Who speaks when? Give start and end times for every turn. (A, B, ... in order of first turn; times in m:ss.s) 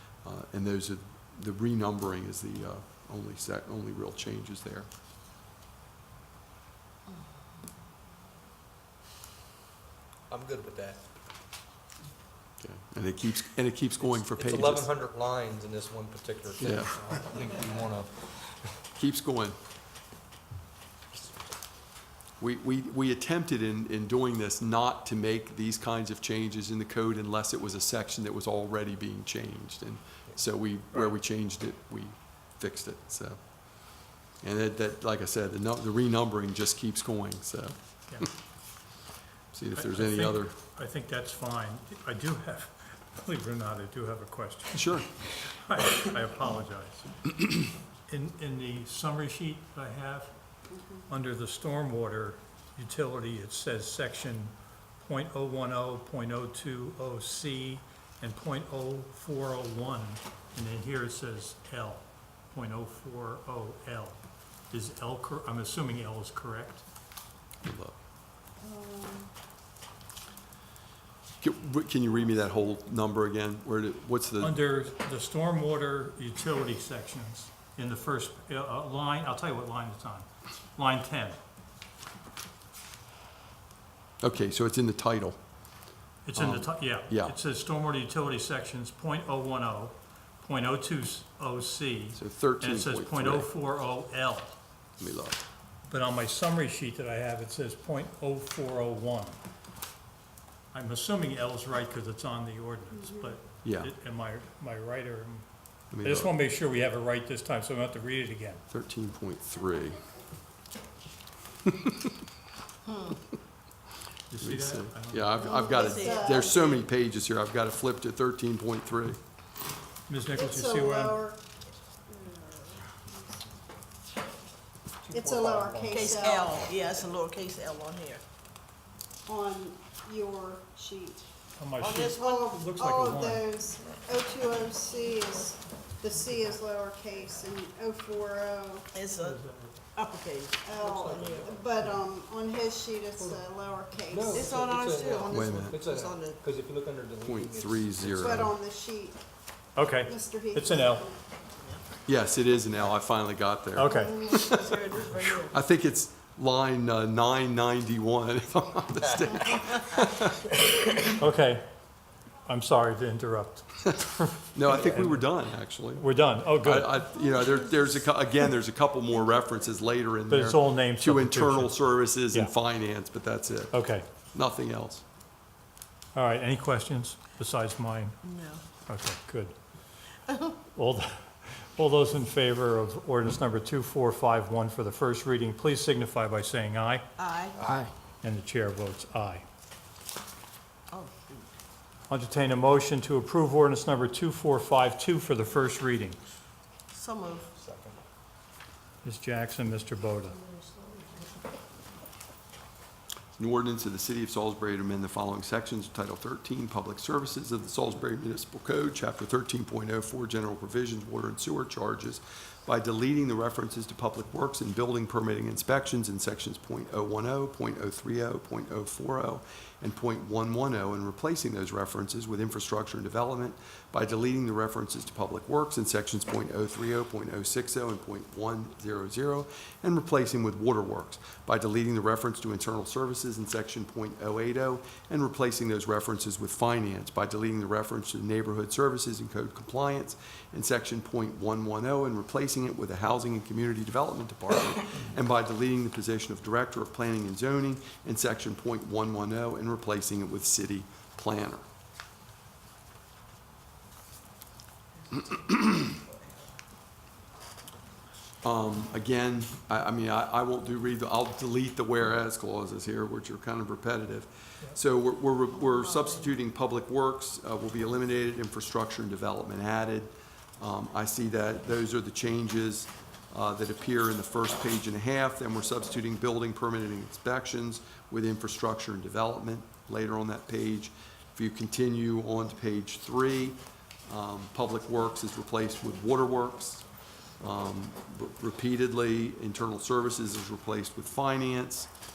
0:00.2-0:04.9 A
0:10.3-0:11.0 B
0:12.6-0:14.9 A
0:14.2-0:18.3 B
0:16.6-0:17.0 A
0:18.9-0:19.6 A
0:22.4-0:37.8 A
0:39.5-0:40.6 A
0:39.7-0:47.3 C
0:44.7-0:45.1 A
0:48.1-0:50.3 C
0:51.1-1:04.2 C
1:04.7-1:06.8 C
1:07.6-1:08.0 A
1:08.6-1:09.3 D
1:11.4-1:14.6 A
1:14.4-1:21.4 C
1:24.2-1:25.4 A
1:26.2-1:34.6 C
1:26.3-1:27.3 A
1:32.1-1:33.5 A
1:35.0-1:35.4 A
1:35.9-1:39.4 C
1:40.7-1:45.4 C
1:43.6-1:43.9 A
1:45.9-1:46.3 A
1:46.0-1:48.6 C
1:48.7-1:50.0 A
1:51.6-1:52.1 A
1:52.9-1:53.1 E
1:54.3-1:55.4 C
1:54.4-1:59.2 A
1:55.4-1:56.4 E
1:55.4-1:56.8 D
2:00.1-2:01.2 C
2:00.3-2:01.4 D
2:02.1-2:03.5 D
2:05.0-2:06.0 C
2:05.1-2:06.6 D
2:05.9-2:08.2 E
2:09.2-2:11.2 D
2:11.6-2:13.5 C
2:11.8-2:12.4 E
2:12.1-2:18.9 D
2:16.2-2:16.6 C
2:18.9-2:19.4 E
2:19.2-2:19.8 C
2:19.9-2:21.6 E
2:20.6-2:24.5 D
2:20.8-2:21.7 B
2:24.1-2:28.5 B
2:24.3-2:26.4 E
2:25.3-2:25.8 A
2:27.2-2:28.5 A
2:28.1-2:29.2 D
2:29.8-2:31.0 C
2:30.0-2:31.2 D
2:32.0-2:40.6 A
2:33.7-2:34.4 C
2:33.9-2:35.6 E
2:41.2-2:41.6 C
2:42.4-2:45.2 C
2:44.5-2:46.1 A
2:46.0-2:47.1 C
2:46.6-2:53.8 A
2:50.3-2:52.5 C
2:53.7-2:54.0 C
2:54.3-2:55.0 A
2:56.1-2:58.2 C
2:58.2-2:58.6 E
2:58.9-2:59.6 C
3:00.7-3:07.0 C
3:07.2-3:07.8 E
3:07.6-3:07.8 B
3:08.2-3:09.4 C
3:10.9-3:11.5 E
3:12.1-3:16.2 C
3:16.9-3:17.5 E
3:17.6-3:18.0 B
3:19.0-3:20.4 C
3:20.4-3:21.3 E
3:23.4-4:11.6 A
4:15.1-4:16.2 E
4:18.4-4:46.8 A
4:47.4-4:51.9 A